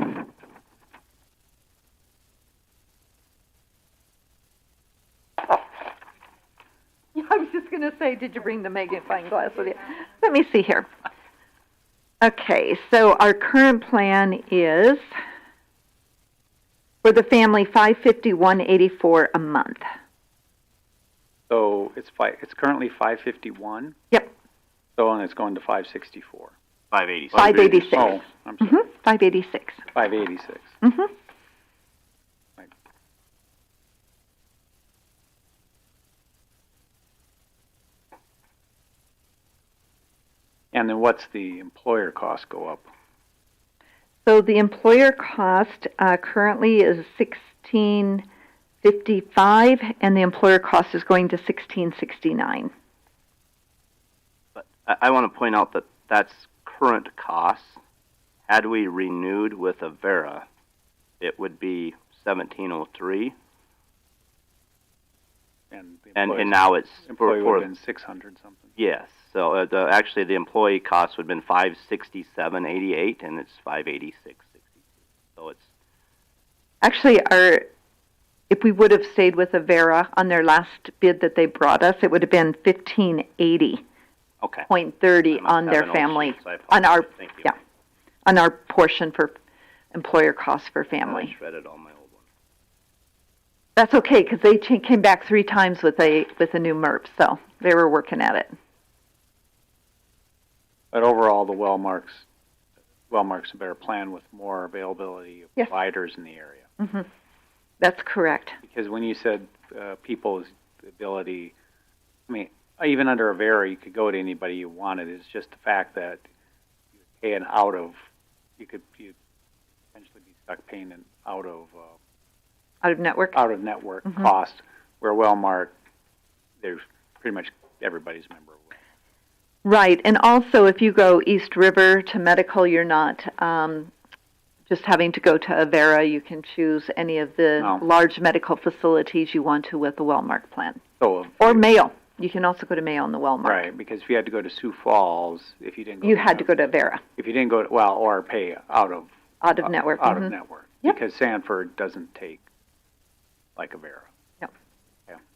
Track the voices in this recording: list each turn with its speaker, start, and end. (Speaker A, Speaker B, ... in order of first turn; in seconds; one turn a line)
Speaker A: 7.1-10.9
Speaker A: 12.2-15.1
Speaker A: 17.0-19.8
Speaker B: 21.5-23.9
Speaker B: 24.9-26.5
Speaker C: 26.9-28.2
Speaker A: 27.3-29.8
Speaker B: 27.9-28.8
Speaker B: 29.9-30.7
Speaker A: 30.8-31.1
Speaker B: 40.7-42.9
Speaker A: 44.2-48.2
Speaker A: 48.8-52.7
Speaker C: 54.5-57.8
Speaker C: 58.5-60.5
Speaker C: 61.2-63.4
Speaker B: 65.7-68.7
Speaker C: 66.2-67.7
Speaker C: 68.8-74.5
Speaker C: 75.3-75.7
Speaker A: 76.8-77.6
Speaker A: 78.5-83.8
Speaker C: 84.4-84.7
Speaker A: 84.7-87.5
Speaker C: 85.3-87.5
Speaker A: 88.2-89.3
Speaker A: 89.9-91.3
Speaker C: 91.0-92.2
Speaker A: 93.8-98.5
Speaker B: 100.9-102.2
Speaker B: 103.1-106.7
Speaker A: 106.8-107.1
Speaker A: 107.8-108.6
Speaker B: 108.6-111.5
Speaker B: 112.3-116.2
Speaker B: 117.2-118.0
Speaker B: 118.6-119.1
Speaker B: 119.9-122.0
Speaker A: 122.8-123.3
Speaker B: 123.3-125.7
Speaker B: 126.6-128.8
Speaker A: 129.6-133.9
Speaker A: 134.7-140.8
Speaker B: 137.6-137.8
Speaker B: 141.0-141.7
Speaker A: 141.4-143.7
Speaker B: 143.4-146.5
Speaker A: 146.0-147.0
Speaker B: 147.2-149.1
Speaker A: 149.4-150.3
Speaker B: 149.6-152.4
Speaker B: 153.6-154.1